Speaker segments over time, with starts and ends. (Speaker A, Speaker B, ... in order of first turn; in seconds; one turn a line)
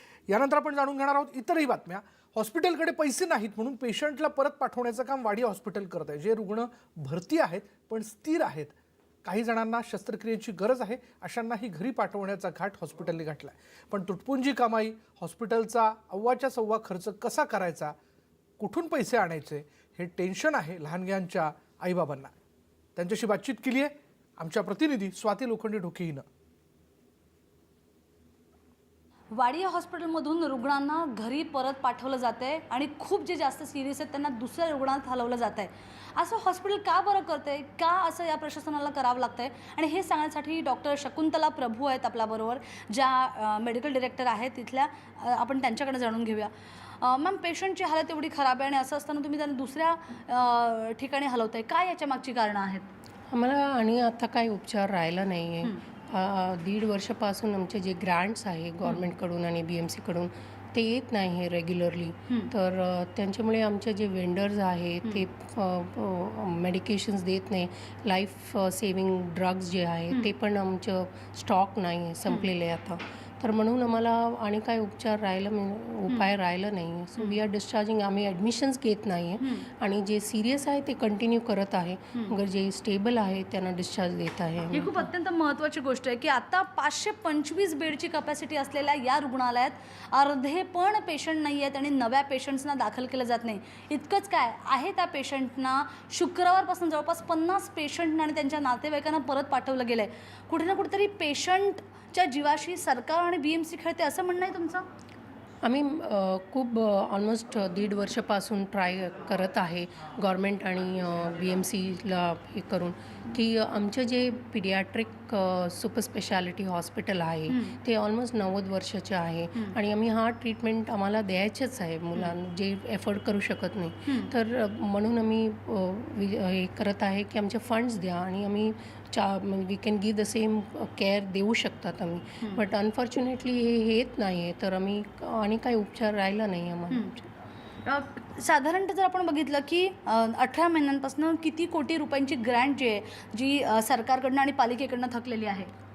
Speaker A: 0.3-17.9
Speaker A: 18.6-22.3
Speaker A: 22.9-26.2
Speaker B: 29.4-52.9
Speaker C: 53.3-85.1
Speaker B: 84.7-104.8
Speaker C: 105.6-137.2
Speaker B: 117.5-117.8
Speaker B: 137.8-145.7